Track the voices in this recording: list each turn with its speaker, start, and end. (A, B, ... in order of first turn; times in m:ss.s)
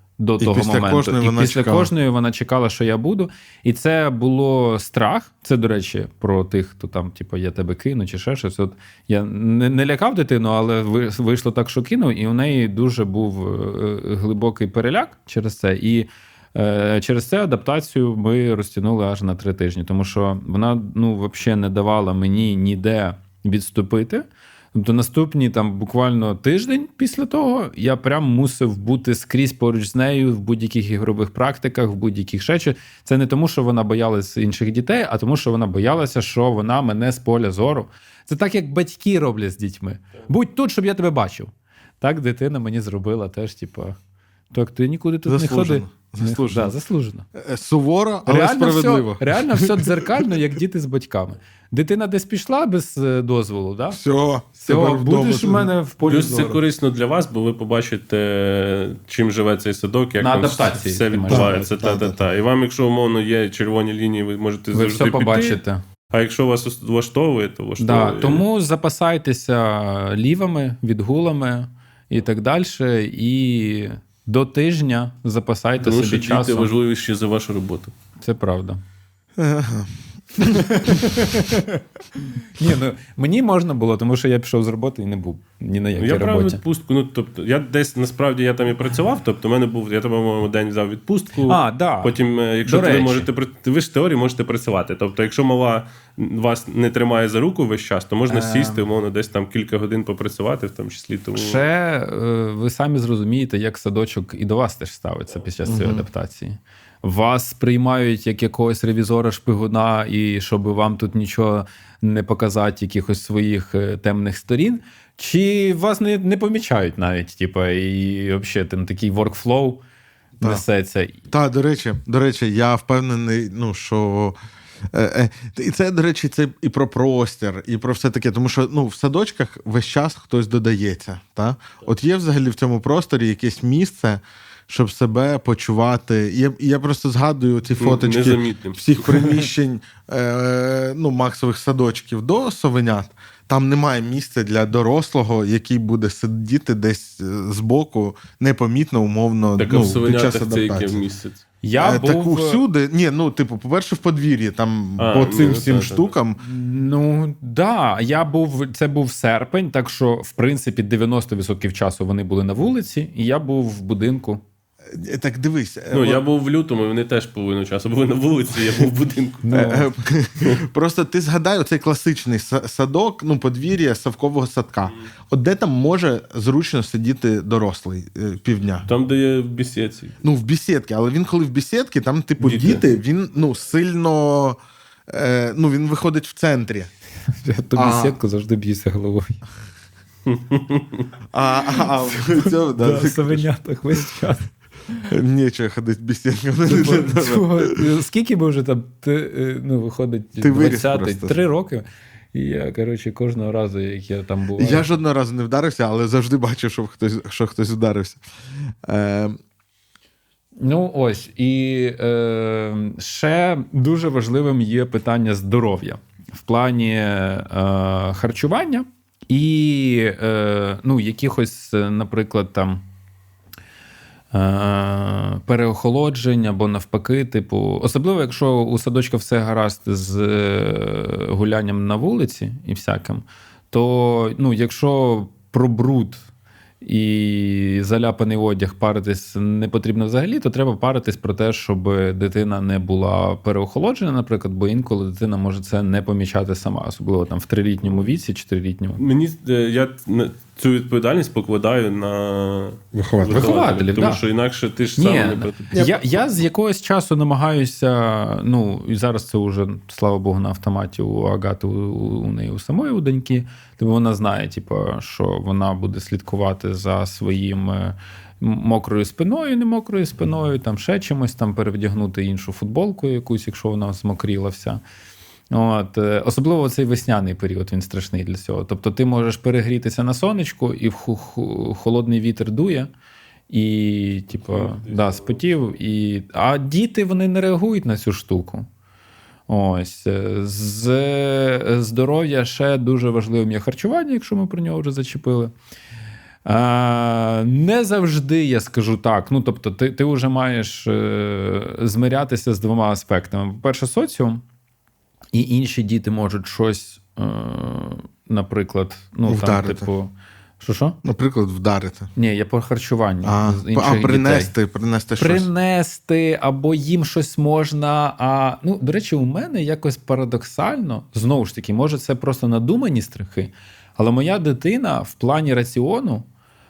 0:00.2-0:44.0 A
0:00.4-0:01.9 B
0:44.5-0:47.2 A
0:45.3-0:46.7 B
0:47.3-0:50.3 B
0:48.2-0:54.0 A
0:53.9-0:55.7 B
0:54.6-0:56.6 A
0:56.1-1:05.6 C
1:00.2-1:01.6 A
1:01.3-1:02.2 B
1:04.7-1:05.8 A
1:06.1-1:08.4 C
1:07.8-1:16.7 A
1:15.8-1:17.9 C
1:18.2-1:18.8 A
1:19.4-1:21.4 B
1:20.4-1:26.6 A
1:26.0-1:41.6 C
1:31.4-1:33.3 A
1:38.3-1:38.8 A
1:41.3-1:59.8 A
1:45.6-1:46.0 B
2:00.4-2:01.2 A
2:01.3-2:04.4 B
2:04.9-2:31.0 B
2:17.8-2:19.1 C
2:29.6-2:31.4 C
2:31.6-2:32.6 A
2:31.8-2:36.4 B
2:35.0-2:36.1 C
2:36.4-2:44.4 A
2:44.9-2:46.2 B
2:45.9-2:49.4 C
2:49.4-2:49.9 A
2:49.5-2:58.9 B
2:58.9-3:00.2 C
3:00.2-3:06.9 B
3:02.4-3:02.8 C
3:07.4-3:09.4 A
3:07.8-3:08.2 B
3:10.2-3:11.1 C
3:11.3-3:13.4 B
3:12.2-3:15.1 A
3:15.1-3:17.8 B
3:16.6-3:24.8 A
3:20.4-3:21.4 B
3:24.6-3:29.4 B
3:30.6-3:42.8 A
3:44.3-3:56.2 A
3:56.8-4:09.0 A
4:09.0-4:15.8 C
4:12.9-4:13.5 B
4:13.3-4:14.2 A
4:15.0-4:34.8 A
4:15.7-4:16.0 B
4:35.5-4:42.9 A
4:43.5-4:48.7 A
4:44.4-4:45.2 C
4:49.5-4:55.5 A
4:56.4-5:04.4 A
5:05.3-5:11.0 A
5:09.2-5:09.9 B
5:11.0-5:12.1 B
5:12.2-5:14.5 A
5:13.2-5:15.5 B
5:15.2-5:26.2 A